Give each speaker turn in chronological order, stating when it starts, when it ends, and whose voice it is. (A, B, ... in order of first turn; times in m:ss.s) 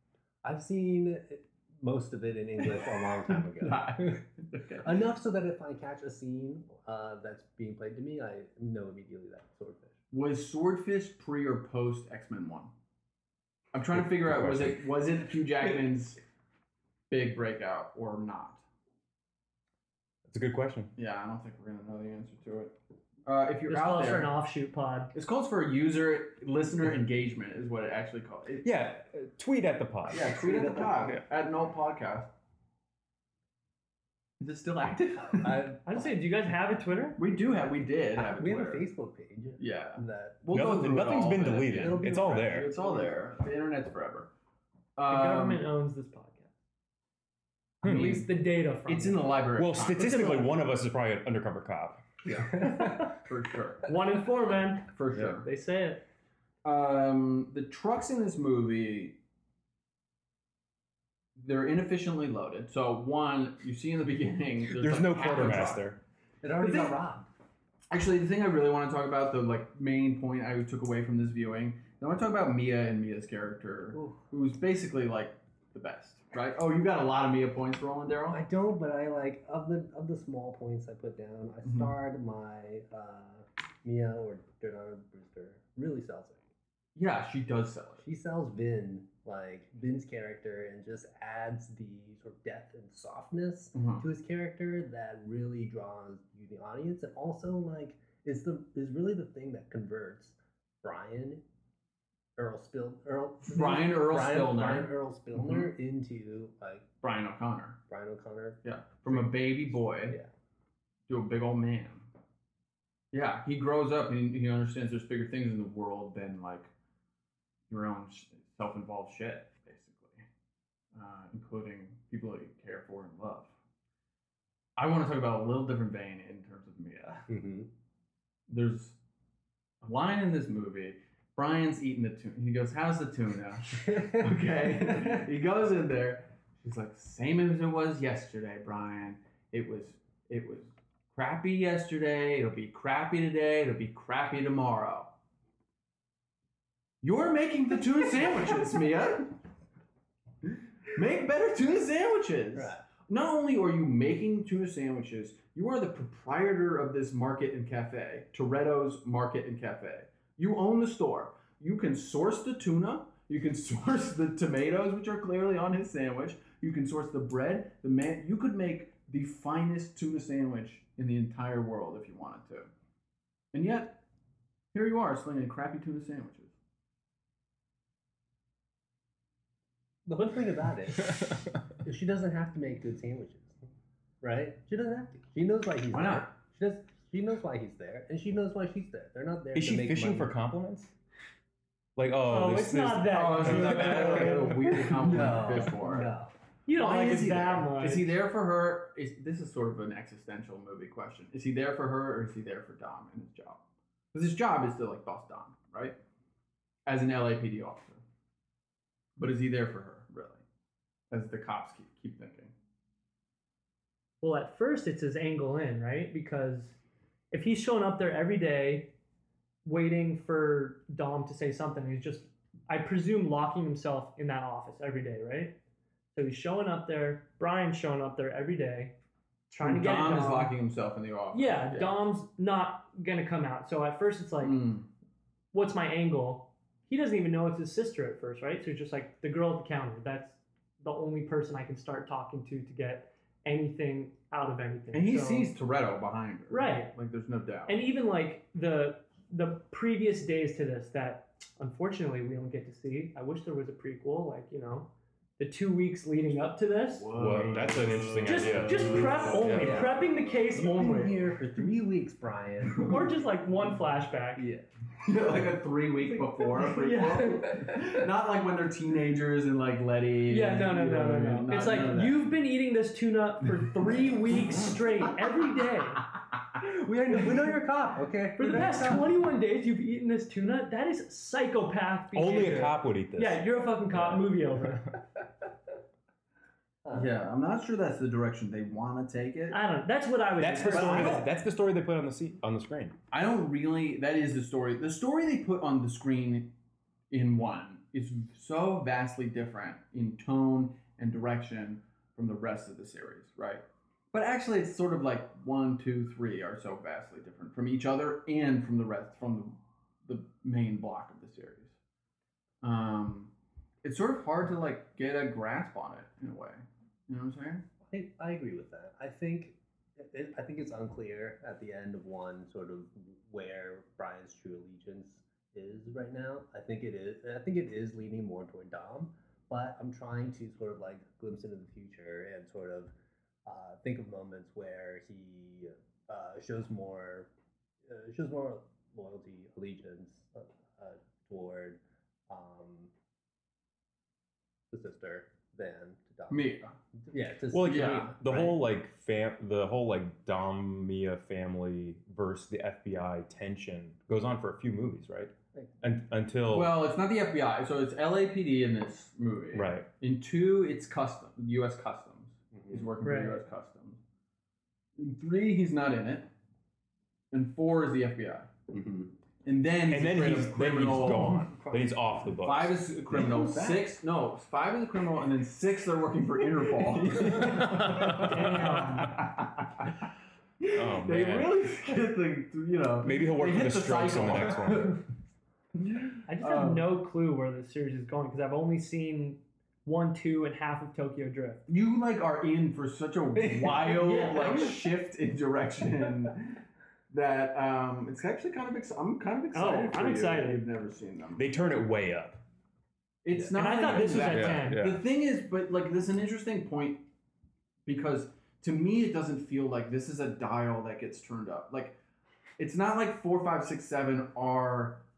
0:00.4-0:09.9 A
0:03.5-0:04.9 B
0:10.1-0:12.7 B
0:13.7-0:16.2 B
0:13.9-0:14.8 C
0:17.1-0:18.6 B
0:20.3-0:20.9 C
0:21.0-0:22.7 B
0:23.2-0:24.3 B
0:23.7-0:25.1 D
0:25.1-0:28.7 B
0:28.6-0:30.4 C
0:30.1-0:32.3 B
0:30.4-0:31.2 A
0:34.4-0:35.7 B
0:35.3-0:36.1 A
0:35.8-0:37.2 D
0:37.2-0:38.8 B
0:38.2-0:43.3 A
0:39.6-0:44.3 B
0:40.5-0:42.7 C
0:45.0-0:45.6 B
0:45.0-0:46.5 D
0:47.8-0:48.2 C
0:47.8-0:49.3 D
0:47.9-0:48.2 B
0:48.9-0:50.5 B
0:49.6-0:52.0 C
0:52.6-0:53.9 B
0:52.6-0:53.0 D
0:53.9-0:56.0 D
0:54.9-0:55.4 B
0:56.6-0:59.2 B
1:01.4-1:05.8 B
1:04.7-1:06.0 C
1:06.4-1:07.2 A
1:06.6-1:07.0 B
1:07.9-1:18.4 B
1:13.9-1:14.2 A
1:18.3-1:26.4 A
1:21.6-1:21.9 B
1:26.9-1:28.0 B
1:28.0-1:41.4 A
1:33.7-1:34.0 B
1:42.4-1:46.8 A
1:43.5-1:45.7 B
1:47.0-1:47.8 B
1:47.9-1:50.3 A
1:48.6-1:50.2 B
1:51.1-1:52.1 B
1:53.1-1:56.7 B
1:57.7-2:00.2 B
2:00.9-2:03.5 B
2:04.8-2:07.2 B
2:07.3-2:07.7 A
2:08.5-2:09.0 B
2:09.8-2:25.1 B
2:27.0-2:29.3 B
2:30.9-2:52.7 B
2:32.5-2:32.8 A
2:53.5-2:54.0 B
2:54.7-2:56.5 B
3:00.0-3:03.6 A
3:04.2-3:10.3 A
3:05.9-3:06.3 B
3:09.5-3:10.9 C
3:12.0-3:14.3 C
3:12.3-3:14.9 D
3:13.1-3:16.1 B
3:14.1-3:16.3 A
3:16.6-3:18.1 D
3:16.7-3:23.6 B
3:24.1-3:26.0 B
3:26.8-3:28.0 B
3:29.2-3:30.4 B
3:31.1-3:32.5 B
3:34.2-3:36.8 D
3:37.3-3:38.9 D
3:39.6-3:45.6 D
3:46.1-3:48.9 D
3:49.5-3:50.5 D
3:49.6-3:52.0 B
3:51.3-3:54.7 D
3:54.4-3:54.8 B
3:55.5-4:05.5 D
4:04.9-4:07.8 B
4:06.5-4:06.9 D
4:07.7-4:17.1 D
4:17.0-4:19.9 B
4:17.1-4:19.9 C
4:18.2-4:21.1 D
4:19.5-4:23.2 A
4:20.6-4:21.1 B
4:22.8-4:24.4 D
4:24.4-4:24.6 A
4:25.0-4:32.3 B
4:26.5-4:27.7 D
4:30.3-4:36.1 D
4:36.6-4:39.1 A
4:38.4-4:44.9 D
4:42.1-4:44.2 C
4:46.8-4:47.1 A
4:46.9-4:49.6 B
4:49.5-4:51.3 D
4:50.4-4:53.0 C
4:50.7-4:51.2 B
4:53.1-4:56.5 B
4:57.1-5:11.7 B
5:12.6-5:13.3 B
5:13.8-5:17.6 B
5:17.9-5:32.9 A
5:33.4-5:37.3 A
5:37.9-5:42.9 A
5:44.7-5:46.4 A
5:46.3-5:46.7 B
5:47.1-5:48.5 A
5:47.5-5:56.8 C
5:47.6-5:48.5 B
5:56.5-6:04.0 B
5:59.5-5:59.9 C
6:02.5-6:02.9 A
6:03.0-6:03.4 D
6:05.0-6:06.3 B
6:07.3-6:08.5 B
6:08.7-6:09.1 A
6:09.4-6:11.5 B
6:09.9-6:12.9 C
6:11.2-6:11.9 A
6:12.4-6:20.0 B
6:13.1-6:13.9 A
6:16.9-6:18.2 A
6:17.4-6:18.4 C
6:18.2-6:19.1 D
6:20.6-6:25.0 B
6:20.7-6:21.6 C
6:23.0-6:25.0 C
6:25.8-6:26.9 B
6:26.3-6:31.6 D
6:31.7-6:41.4 B
6:33.4-6:34.7 A
6:34.0-6:34.8 D
6:39.5-6:40.6 D
6:41.4-6:42.4 C
6:43.2-6:47.0 B
6:43.5-6:44.8 D
6:44.0-6:45.0 C
6:47.8-6:52.0 B
6:52.6-6:55.0 B